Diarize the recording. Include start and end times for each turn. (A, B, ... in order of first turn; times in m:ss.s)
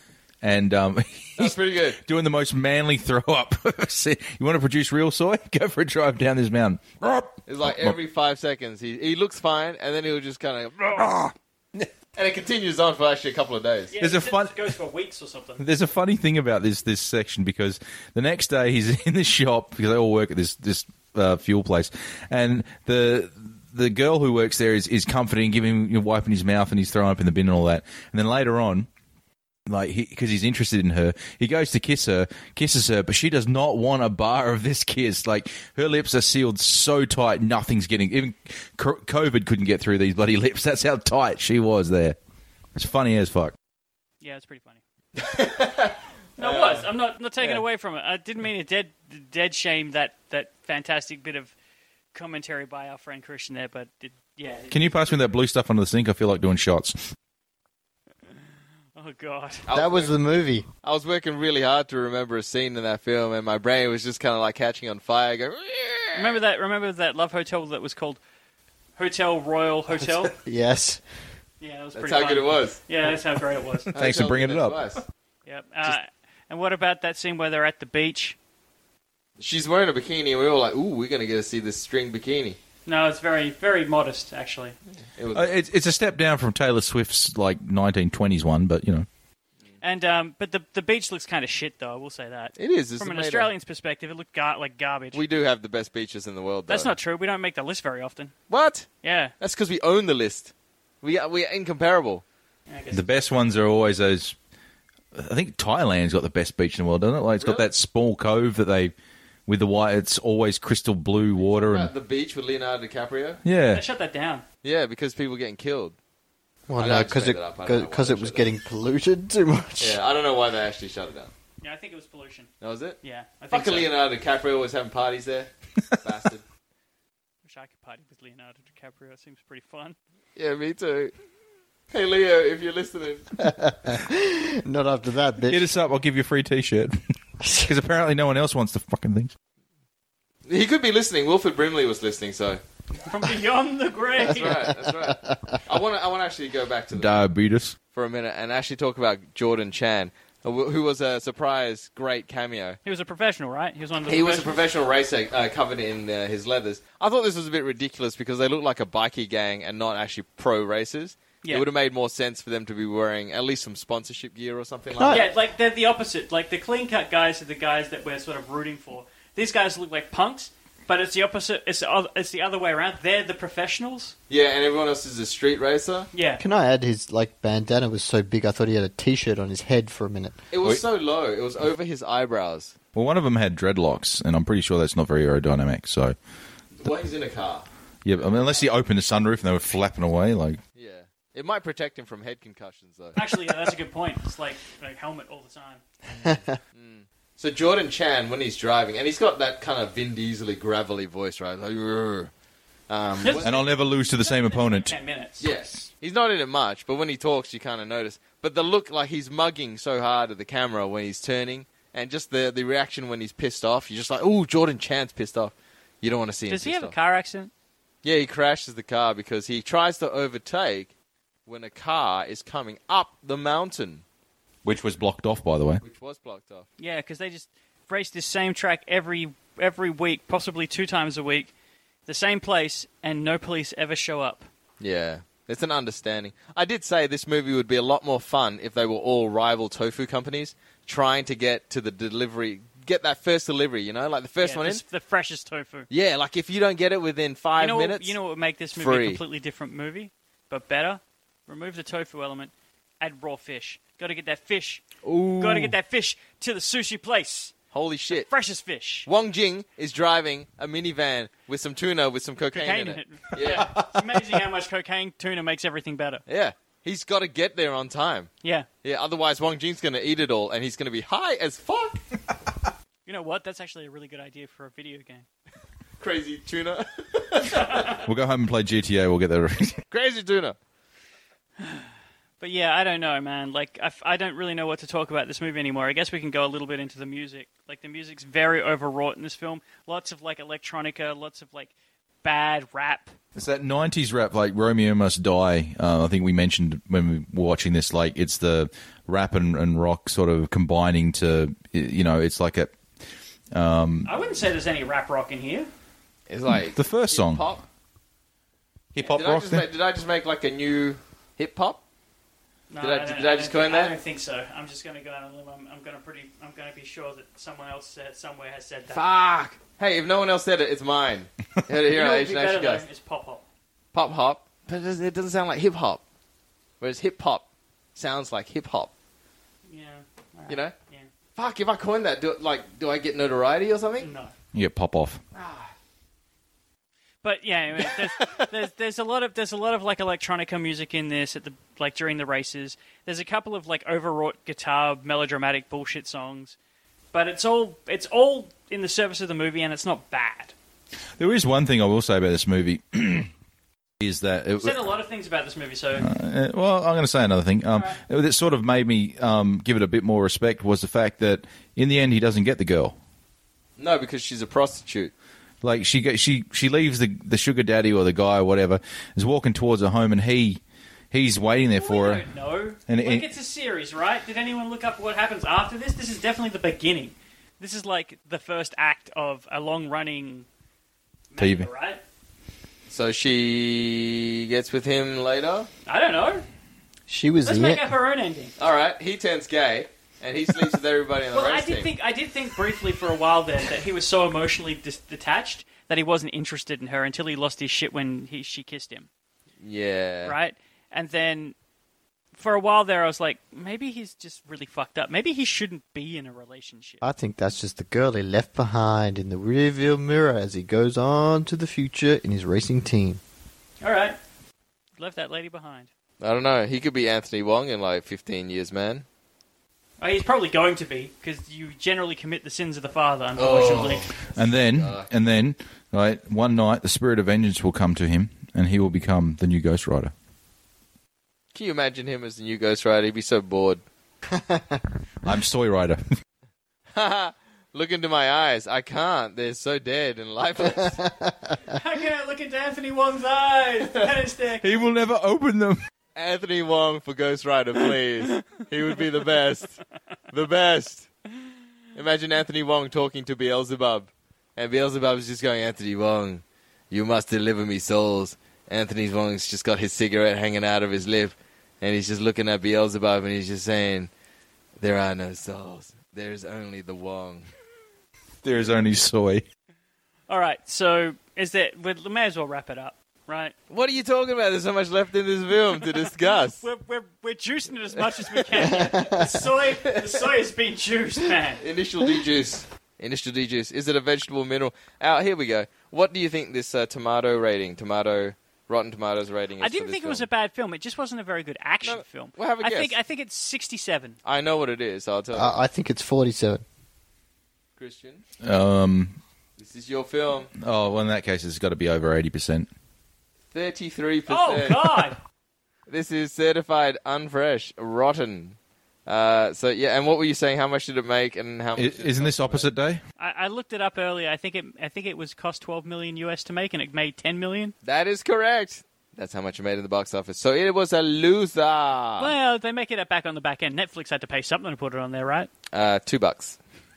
0:00.4-0:08.0 A
0:01.4-0:02.0 B
0:07.4-0:11.1 B
0:11.0-0:11.9 A
0:12.2-0:13.9 B
0:13.9-0:15.6 C
0:14.0-0:14.6 A
0:15.6-0:28.9 A
0:29.7-0:42.2 A
0:42.7-0:43.5 A
0:44.2-0:44.8 C
0:45.2-0:46.9 B
0:46.4-0:51.5 C
0:52.1-0:55.2 C
0:54.7-0:57.1 A
0:59.0-0:59.6 C
0:59.7-1:00.1 B
0:59.7-1:00.6 D
1:00.8-1:06.4 B
1:06.1-1:08.2 C
1:09.0-1:10.3 C
1:10.4-1:11.1 D
1:11.6-1:13.9 C
1:11.9-1:12.8 B
1:13.9-1:14.9 A
1:13.9-1:15.0 B
1:15.4-1:18.4 C
1:19.4-1:22.6 B
1:22.9-1:24.7 C
1:25.2-1:25.5 B
1:25.3-1:29.1 A
1:29.8-1:35.2 C
1:32.6-1:33.5 B
1:35.1-1:36.9 B
1:36.7-1:38.3 C
1:38.5-1:42.2 B
1:39.0-1:39.3 C
1:42.7-1:43.0 C
1:42.9-1:44.4 A
1:45.1-1:48.9 A
1:47.4-1:47.7 B
1:49.5-1:51.9 A
1:51.4-1:53.4 B
1:53.4-1:53.8 A
1:53.7-1:54.4 C
1:54.6-1:56.0 B
1:56.7-2:00.0 D
1:56.8-1:58.5 B
1:59.8-2:01.3 B
2:01.6-2:02.5 C
2:02.6-2:03.0 B
2:03.0-2:03.9 C
2:03.5-2:05.5 B
2:06.0-2:06.4 B
2:07.4-2:10.0 C
2:10.4-2:11.1 B
2:11.9-2:13.5 B
2:13.4-2:15.7 D
2:15.5-2:19.3 A
2:20.4-2:22.6 B
2:23.0-2:24.7 C
2:24.2-2:27.2 B
2:24.4-2:25.6 D
2:26.9-2:27.8 A
2:27.9-2:32.8 B
2:32.8-2:34.6 C
2:34.1-2:45.3 B
2:44.9-2:45.3 D
2:45.1-2:54.1 C
2:54.3-2:56.1 B
2:56.1-2:56.4 C
2:56.4-3:00.4 D
3:00.5-3:02.7 B
3:02.9-3:06.2 A
3:06.8-3:08.6 B
3:08.0-3:10.6 A
3:10.7-3:13.2 B
3:13.1-3:15.8 C
3:16.1-3:22.3 B
3:22.9-3:23.5 B
3:23.2-3:25.5 C
3:23.4-3:24.9 A
3:25.4-3:36.9 B
3:36.5-3:37.5 C
3:38.0-3:40.9 B
3:41.4-3:44.0 B
3:44.6-3:45.8 A
3:45.8-3:46.7 B
3:46.8-3:51.5 C
3:52.1-3:54.5 C
3:54.8-4:04.8 B
4:04.4-4:05.9 C
4:05.9-4:08.2 B
4:07.6-4:14.8 C
4:08.7-4:09.2 B
4:15.0-4:15.7 B
4:15.4-4:17.5 C
4:17.7-4:18.3 B
4:18.1-4:19.1 C
4:19.0-4:23.8 B
4:22.5-4:26.2 C
4:23.4-4:24.0 A
4:26.3-4:28.3 B
4:28.8-4:32.0 B
4:33.0-4:35.2 C
4:36.0-4:38.0 B
4:37.5-4:38.0 C
4:38.0-4:39.8 A
4:39.9-4:40.6 B
4:41.6-4:41.9 C
4:42.4-4:51.7 C
4:52.2-4:53.1 C
4:53.3-5:02.8 A
5:03.5-5:04.1 A
5:04.0-5:05.7 C
5:06.3-5:07.6 B
5:06.5-5:07.4 A
5:08.9-5:09.6 A
5:09.0-5:11.8 B
5:12.7-5:19.0 C
5:12.8-5:13.9 B
5:18.9-5:22.8 B
5:21.9-5:23.4 C
5:23.9-5:26.0 B
5:26.8-5:28.9 B
5:29.7-5:31.1 C
5:30.5-5:30.7 B
5:31.4-5:34.1 B
5:34.0-5:34.3 C
5:34.5-5:35.2 A
5:35.3-5:35.7 B
5:37.2-5:46.6 C
5:47.1-5:50.5 C
5:51.2-5:53.3 A
5:54.0-5:54.8 A
5:54.6-5:56.1 C
5:56.0-6:02.9 A
5:57.7-5:58.0 C
6:03.8-6:05.1 B
6:05.6-6:10.6 A
6:11.1-6:12.2 A
6:11.7-6:20.5 C
6:12.9-6:13.2 A
6:21.3-6:22.0 C
6:21.4-6:21.7 A
6:22.9-6:25.7 B
6:25.8-6:26.4 C
6:27.1-6:27.8 D
6:27.4-6:28.5 C
6:28.6-6:31.9 B
6:31.3-6:39.1 C
6:39.6-6:40.4 B
6:40.2-6:41.5 C
6:42.4-6:47.0 C
6:47.0-6:53.2 D
6:53.8-6:54.2 C
6:55.0-6:55.9 C
6:56.2-6:59.0 B
7:00.0-7:04.1 C
7:03.4-7:05.1 B
7:04.4-7:10.1 A
7:11.5-7:13.8 B
7:14.3-7:14.8 D
7:15.2-7:16.0 A
7:16.9-7:21.0 B
7:20.9-7:21.6 D
7:21.7-7:24.9 C
7:24.6-7:25.8 A
7:26.2-7:31.1 B
7:31.9-7:44.1 B
7:44.8-7:47.5 B
7:48.4-7:49.4 A
7:50.3-7:53.5 C
7:53.7-7:56.6 B
7:56.6-8:01.6 C
7:58.3-7:58.7 B
7:58.6-7:59.4 D
7:59.8-8:00.2 B
8:01.6-8:10.2 B
8:09.6-8:14.2 C
8:11.8-8:13.0 B
8:14.2-8:15.5 B
8:15.3-8:16.6 D
8:17.8-8:18.2 B
8:18.4-8:19.2 A
8:19.6-8:20.5 B
8:20.6-8:22.7 A
8:23.5-8:25.1 B
8:24.3-8:25.2 C
8:25.9-8:32.7 B
8:31.8-8:33.0 A
8:33.2-8:37.7 C
8:37.8-8:42.3 B
8:42.2-8:45.5 C
8:45.7-8:46.6 B